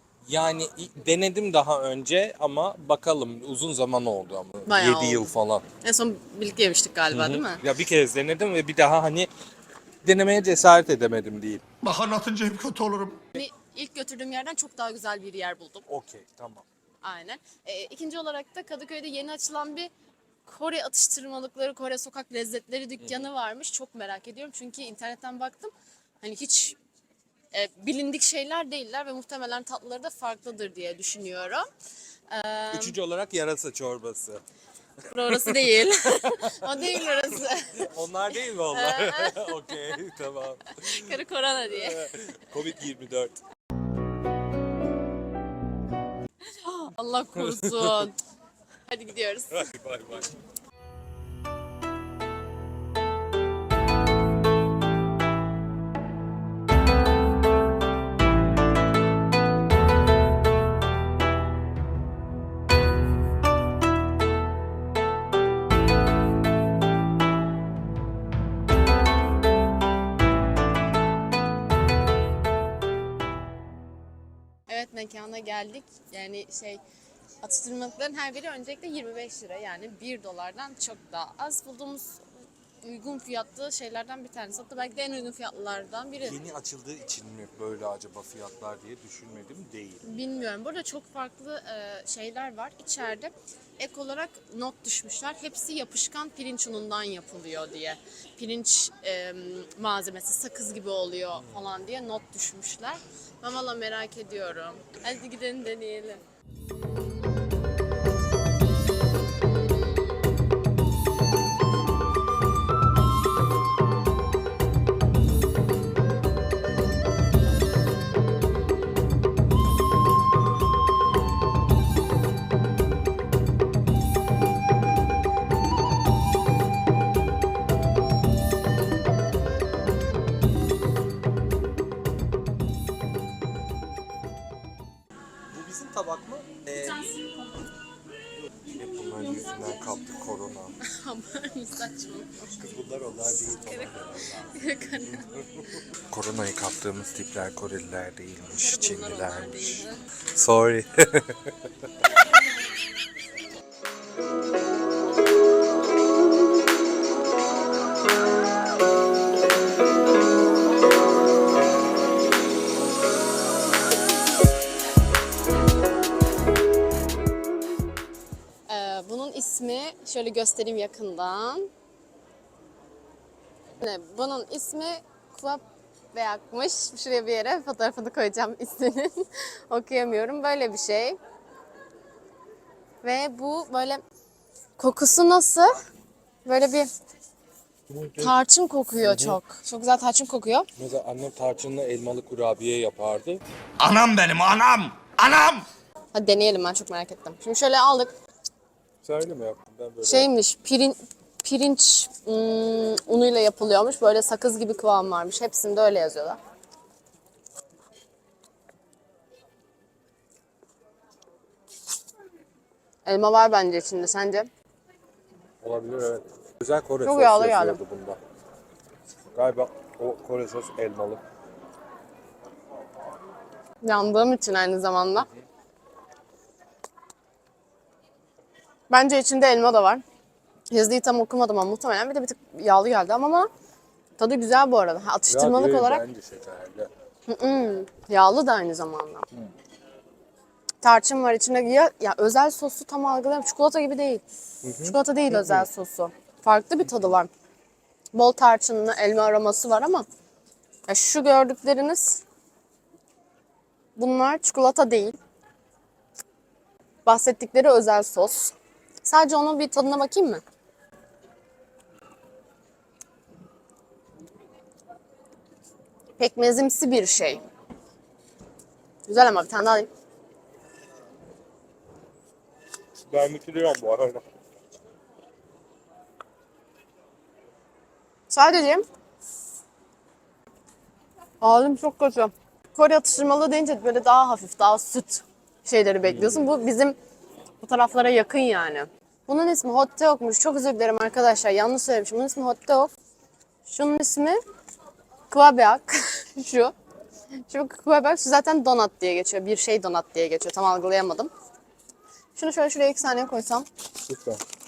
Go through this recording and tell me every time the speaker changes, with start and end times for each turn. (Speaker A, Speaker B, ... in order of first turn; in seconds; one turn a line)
Speaker A: 0.2-5.6
Speaker B: 4.7-7.6
Speaker A: 7.1-9.3
Speaker A: 10.0-11.6
Speaker C: 11.8-13.2
Speaker B: 13.3-15.9
Speaker A: 15.9-16.6
Speaker B: 17.0-19.9
Speaker B: 20.4-26.8
Speaker B: 27.5-31.7
Speaker B: 32.3-33.0
Speaker A: 32.7-34.4
Speaker B: 35.0-37.9
Speaker A: 35.0-43.4
Speaker B: 38.7-39.9
Speaker B: 40.7-42.1
Speaker B: 46.4-48.2
Speaker A: 47.3-48.1
Speaker B: 48.9-49.7
Speaker A: 49.5-50.3
Speaker B: 74.7-76.8
Speaker B: 77.4-82.3
Speaker B: 82.8-86.4
Speaker A: 86.2-90.0
Speaker B: 90.0-106.2
Speaker A: 135.5-137.1
Speaker A: 138.7-140.8
Speaker B: 140.8-142.5
Speaker A: 142.5-151.9
Speaker B: 143.6-145.3
Speaker B: 148.5-150.1
Speaker B: 168.7-171.7
Speaker B: 173.8-181.2
Speaker B: 183.0-184.0
Speaker B: 184.8-185.8
Speaker B: 186.4-186.9
Speaker A: 187.9-188.4
Speaker B: 188.2-190.7
Speaker A: 189.0-189.4
Speaker A: 190.8-193.4
Speaker C: 193.8-195.7
Speaker B: 196.1-198.1
Speaker A: 199.0-200.3
Speaker B: 200.0-206.4
Speaker B: 213.0-214.5
Speaker A: 215.6-218.2
Speaker B: 217.0-217.8
Speaker A: 219.3-221.2
Speaker B: 223.8-225.3
Speaker B: 228.9-230.0
Speaker B: 230.7-233.5
Speaker B: 234.2-236.0
Speaker A: 235.3-236.9
Speaker B: 237.3-239.3
Speaker B: 240.8-244.2
Speaker A: 244.6-245.7
Speaker B: 244.8-247.3
Speaker B: 248.1-250.1
Speaker B: 250.9-252.2
Speaker B: 253.9-255.2
Speaker B: 257.0-260.4
Speaker B: 266.2-267.4
Speaker B: 269.1-269.9
Speaker A: 273.1-274.2
Speaker B: 278.3-278.8
Speaker B: 281.4-286.9
Speaker A: 286.0-286.5
Speaker B: 287.6-292.9
Speaker B: 293.6-294.4
Speaker B: 295.3-296.7
Speaker B: 297.5-301.3
Speaker B: 302.3-303.7
Speaker A: 304.1-304.4